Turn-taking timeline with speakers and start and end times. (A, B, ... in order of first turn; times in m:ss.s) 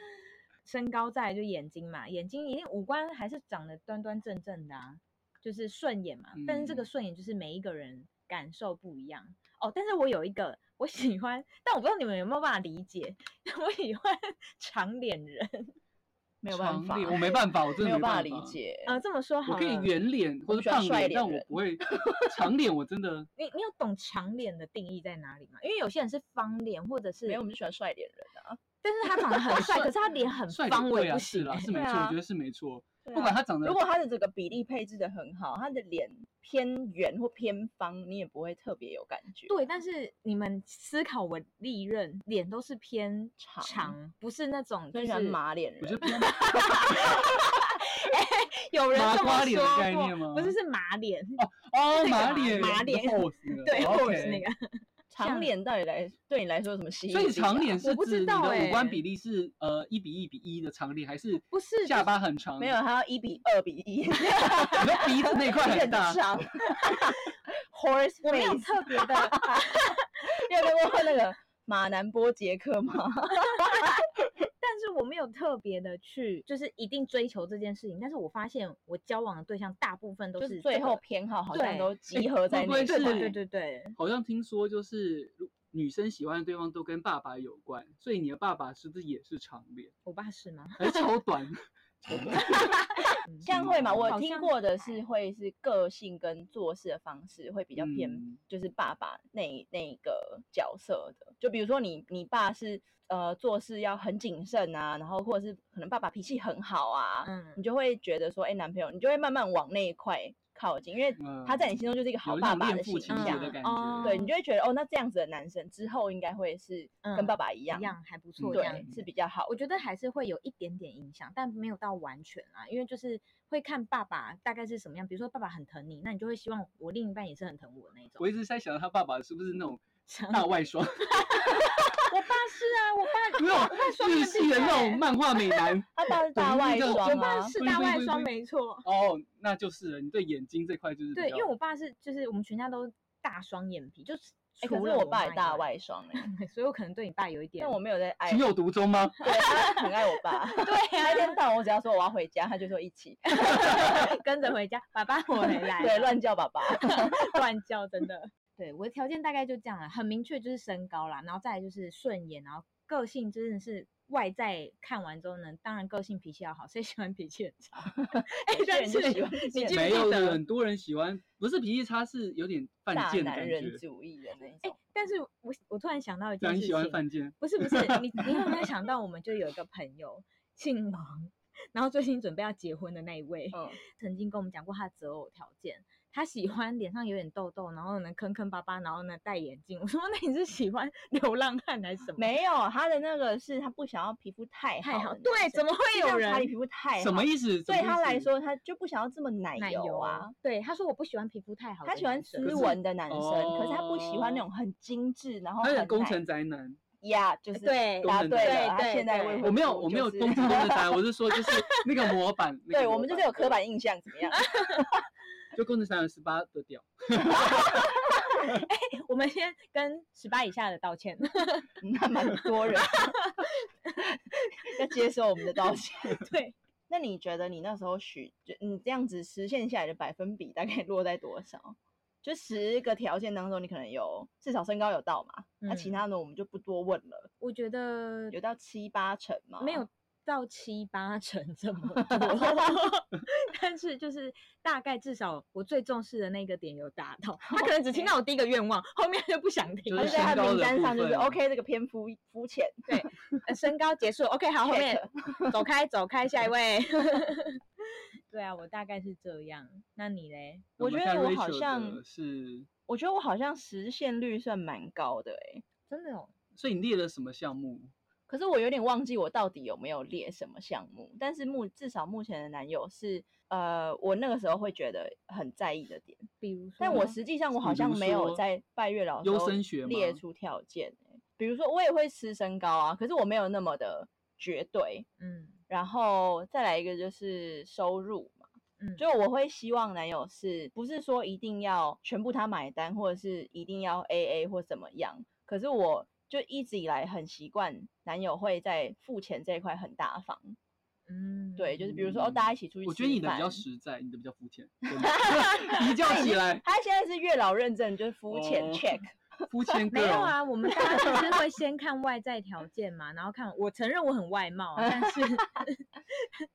0:00.6-0:15.7 A
0:06.4-0:06.9 B
0:16.4-0:18.9 C
0:16.5-0:18.6 B
0:18.9-0:19.9 A
0:19.5-0:23.3 B
0:20.5-0:22.3 C
0:23.4-0:27.4 A
0:27.3-0:28.6 C
0:28.8-0:31.7 A
0:29.4-0:30.2 C
0:29.6-0:29.9 B
0:30.5-0:33.8 B
0:31.7-0:32.2 C
0:33.0-0:39.6 C
0:39.5-0:45.4 A
0:43.4-0:44.0 C
0:44.9-0:46.4 C
0:45.8-0:47.2 B
0:46.2-0:51.4 A
0:48.9-0:50.6 B
0:51.4-0:54.4 B
0:51.9-0:55.5 A
0:55.1-0:57.8 C
0:57.1-1:02.8 B
0:57.8-0:59.0 A
1:01.5-1:02.1 A
1:02.6-1:13.9 C
1:04.2-1:05.1 A
1:04.7-1:06.2 B
1:06.8-1:07.1 A
1:08.2-1:10.1 A
1:14.6-1:21.0 A
1:20.4-1:23.3 C
1:21.5-1:22.3 A
1:22.5-1:23.4 B
1:22.9-1:24.0 A
1:24.0-1:29.9 B
1:30.0-1:31.1 A
1:30.8-1:32.9 B
1:33.2-1:35.0 A
1:33.4-1:58.0 C
1:33.4-1:34.2 B
1:37.8-1:38.4 B
1:47.2-1:47.6 A
1:51.2-1:54.2 B
1:53.1-1:54.3 A
1:57.0-1:58.9 A
1:58.4-1:59.0 B
1:58.5-1:59.6 C
1:59.5-2:08.2 A
2:08.2-2:11.6 B
2:10.1-2:15.1 A
2:13.4-2:18.3 B
2:16.0-2:17.6 C
2:16.8-2:18.9 A
2:18.8-2:21.5 B
2:21.1-2:27.8 A
2:24.6-2:26.3 C
2:27.6-2:28.5 C
2:28.3-2:29.2 B
2:29.2-2:34.1 C
2:29.2-2:29.8 A
2:30.5-2:31.4 A
2:33.3-2:50.4 A
2:35.4-2:37.4 C
2:48.0-2:50.2 C
2:49.7-2:53.8 B
2:52.9-2:54.8 C
2:54.6-3:12.3 A
2:56.4-2:58.7 B
3:03.5-3:03.8 C
3:12.2-3:20.3 C
3:14.8-3:16.5 A
3:17.0-3:18.3 B
3:19.6-3:22.8 A
3:21.8-3:26.2 C
3:22.4-3:24.4 B
3:25.6-3:26.8 B
3:27.0-3:31.0 C
3:27.5-3:29.4 A
3:28.0-3:28.7 B
3:29.4-3:33.6 B
3:31.4-3:31.8 A
3:32.7-3:34.8 C
3:34.4-3:34.7 A
3:35.5-3:37.9 B
3:38.3-3:41.7 A
3:41.8-3:43.2 C
3:42.3-3:44.7 A
3:44.6-3:46.2 C
3:46.0-3:46.6 A
3:46.9-3:57.3 C
3:55.6-3:56.0 A
3:57.4-3:58.4 A
3:58.3-3:59.9 C
3:59.6-4:10.4 A
4:02.0-4:02.7 C
4:07.4-4:08.1 C
4:09.9-4:11.4 B
4:10.0-4:12.9 C
4:12.9-4:17.6 A
4:14.7-4:15.6 C
4:18.3-4:20.7 A
4:20.8-4:22.0 C
4:20.8-4:22.7 B
4:22.9-4:25.6 C
4:25.9-4:26.3 A
4:26.6-4:27.9 B
4:28.3-4:36.3 C
4:36.4-4:37.2 A
4:36.8-4:45.1 C
4:37.6-4:38.4 B
4:39.2-4:40.2 B
4:45.2-4:45.6 A
4:45.7-5:00.6 C
5:01.1-5:02.1 A
5:01.6-5:03.6 C
5:02.0-5:06.6 B
5:05.0-5:09.8 C
5:08.3-5:10.4 B
5:09.9-5:16.3 A
5:10.9-5:11.3 C
5:14.8-5:15.4 C